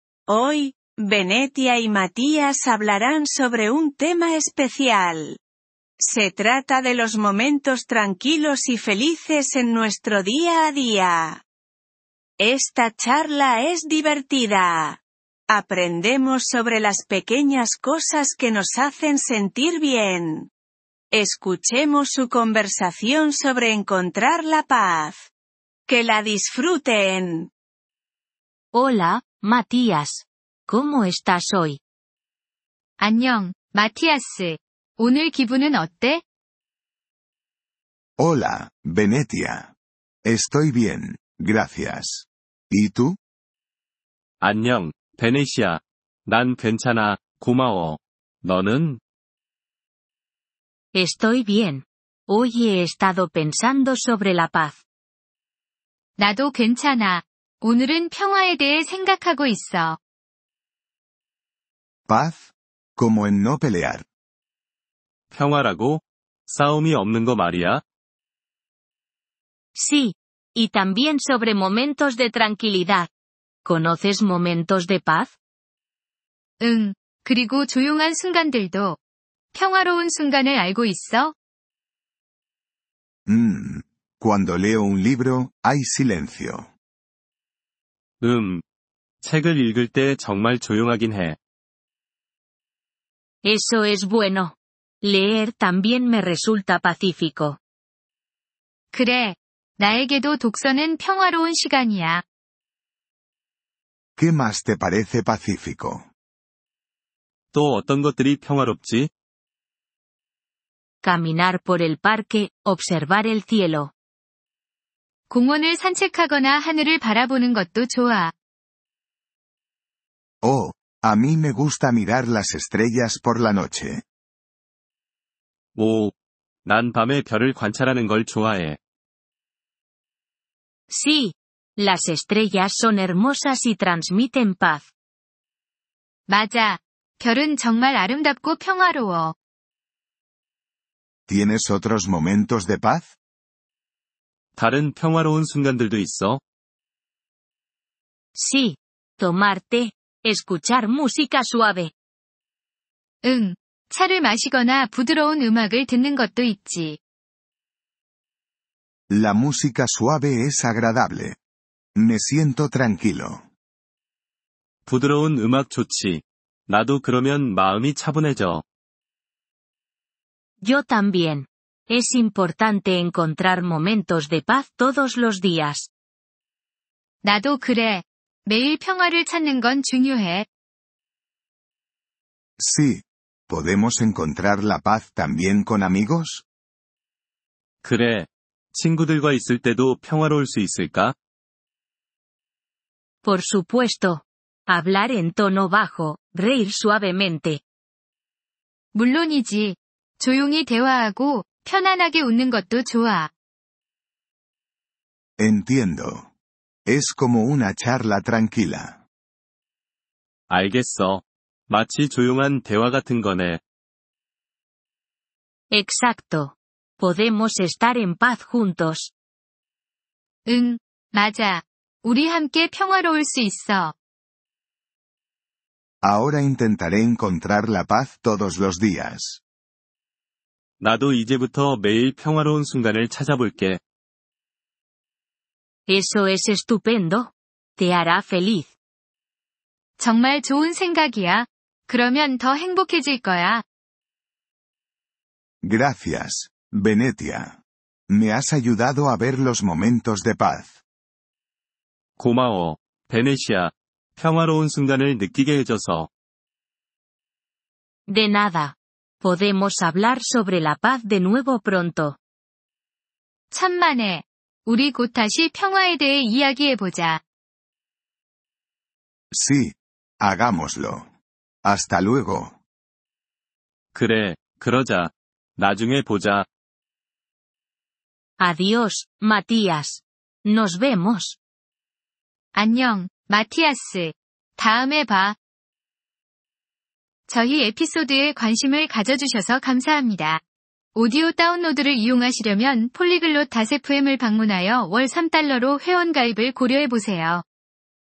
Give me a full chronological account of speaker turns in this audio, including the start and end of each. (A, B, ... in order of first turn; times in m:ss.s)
0:00.3-0:05.4 A
0:06.0-0:11.4 A
0:12.4-0:20.5 A
0:21.1-0:25.3 A
0:25.9-0:27.5 A
0:28.7-0:31.8 B
0:33.0-0:36.2 C
0:38.2-0:39.7 D
0:40.2-0:43.2 D
0:44.4-0:49.0 E
0:50.9-0:54.8 B
0:56.2-1:00.0 C
1:02.1-1:04.0 D
1:05.3-1:07.8 E
1:09.8-1:13.1 B
1:13.6-1:15.3 B
1:16.6-1:19.0 C
1:19.5-1:21.4 C
1:23.3-1:26.7 D
1:28.2-1:28.6 E
1:29.2-1:31.4 E
1:33.4-1:37.6 B
1:38.9-1:42.2 C
1:44.2-1:46.1 D
1:47.5-1:49.1 E
1:51.0-1:53.9 B
1:55.3-1:58.3 C
2:00.4-2:04.0 D
2:05.8-2:06.1 E
2:06.6-2:08.8 E
2:10.9-2:14.9 B
2:16.3-2:19.4 C
2:21.3-2:23.1 D
2:24.6-2:26.4 E
2:28.4-2:31.9 B
2:33.2-2:37.0 C
2:39.1-2:41.4 D
2:42.0-2:43.5 D
2:44.9-2:48.6 E
2:50.6-2:55.9 B
2:57.2-3:00.5 C
3:02.6-3:06.4 D
3:07.8-3:11.2 E
3:13.2-3:17.6 B
3:18.9-3:23.3 C
3:25.4-3:26.3 D
3:26.9-3:29.0 D
3:30.5-3:33.6 E
3:35.7-3:39.1 B
3:40.5-3:44.0 C
3:46.0-3:49.4 D
3:50.8-3:53.8 E
3:55.9-3:58.7 B
4:00.0-4:03.6 C
4:05.6-4:10.8 D
4:12.2-4:16.1 E
4:18.1-4:22.2 B
4:23.5-4:27.2 C
4:29.3-4:31.1 D
4:31.6-4:32.6 D
4:33.9-4:36.5 E
4:38.4-4:41.4 B
4:42.5-4:45.4 C
4:47.3-4:50.4 C
4:51.0-4:57.4 C